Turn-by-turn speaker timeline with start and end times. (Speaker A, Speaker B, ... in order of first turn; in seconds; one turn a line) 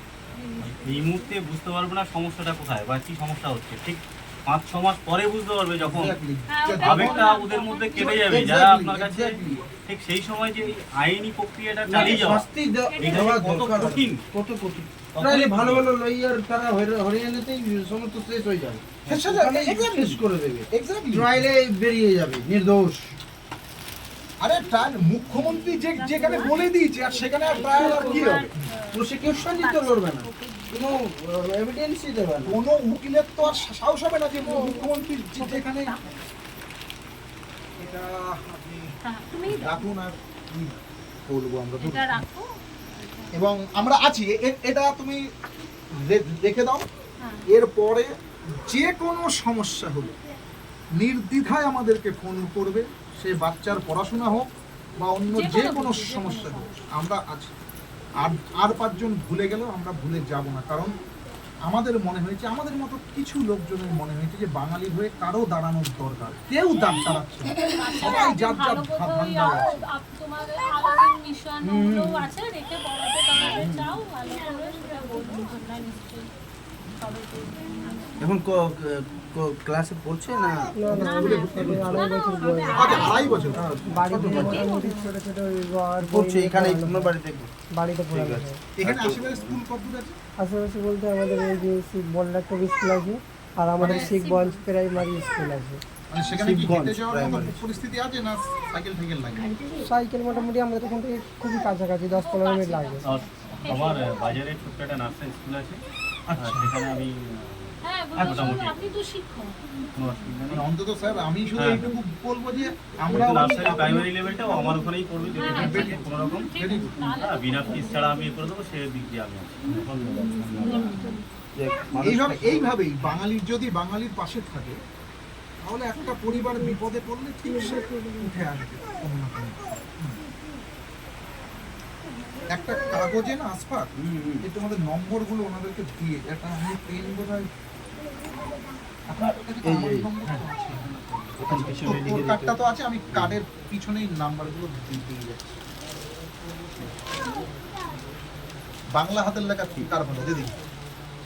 Speaker A: 0.3-1.3
Speaker B: 0.6-6.2
Speaker C: 5.8-7.3
Speaker A: 6.5-8.5
Speaker B: 6.8-12.4
Speaker C: 8.0-9.6
Speaker D: 8.0-9.4
Speaker D: 11.8-23.1
Speaker A: 12.0-12.2
Speaker A: 12.9-13.4
Speaker B: 13.0-14.2
Speaker B: 15.2-15.9
Speaker C: 19.1-21.5
Speaker C: 24.4-28.7
Speaker A: 25.3-31.0
Speaker D: 27.6-28.4
Speaker D: 28.9-32.5
Speaker C: 32.4-36.0
Speaker A: 34.4-36.2
Speaker C: 37.8-42.2
Speaker A: 39.0-39.8
Speaker A: 41.8-43.4
Speaker C: 43.3-45.3
Speaker C: 45.9-46.8
Speaker C: 47.5-48.1
Speaker C: 48.6-50.1
Speaker C: 51.0-54.5
Speaker C: 55.0-57.5
Speaker A: 55.3-56.9
Speaker C: 58.2-60.9
Speaker C: 61.7-69.8
Speaker A: 67.6-76.3
Speaker D: 71.6-72.3
Speaker D: 73.4-73.9
Speaker A: 77.0-78.3
Speaker D: 78.2-82.0
Speaker E: 80.7-83.2
Speaker A: 80.9-85.1
Speaker C: 81.0-82.0
Speaker C: 82.7-83.7
Speaker D: 83.0-84.8
Speaker E: 83.8-87.1
Speaker D: 86.0-87.5
Speaker E: 87.7-88.6
Speaker D: 88.1-89.6
Speaker C: 88.8-90.1
Speaker E: 90.4-95.8
Speaker C: 93.8-94.1
Speaker A: 93.8-94.6
Speaker C: 96.1-99.6
Speaker D: 96.3-97.6
Speaker E: 99.8-103.1
Speaker A: 102.1-104.3
Speaker B: 103.0-105.8
Speaker C: 106.3-106.7
Speaker B: 106.4-108.9
Speaker A: 107.8-109.6
Speaker C: 108.2-108.6
Speaker B: 109.9-110.6
Speaker C: 110.5-114.8
Speaker B: 111.5-111.9
Speaker B: 113.1-116.5
Speaker A: 115.3-118.5
Speaker C: 115.5-117.1
Speaker B: 117.1-120.9
Speaker A: 120.6-121.2
Speaker D: 121.5-122.8
Speaker C: 122.0-124.8
Speaker C: 125.6-130.2
Speaker C: 132.5-133.9
Speaker D: 134.0-134.4
Speaker C: 134.4-137.5
Speaker C: 139.1-145.6
Speaker D: 139.6-140.1
Speaker D: 141.4-142.6
Speaker E: 146.2-148.0
Speaker C: 148.9-150.5
Speaker E: 149.8-150.9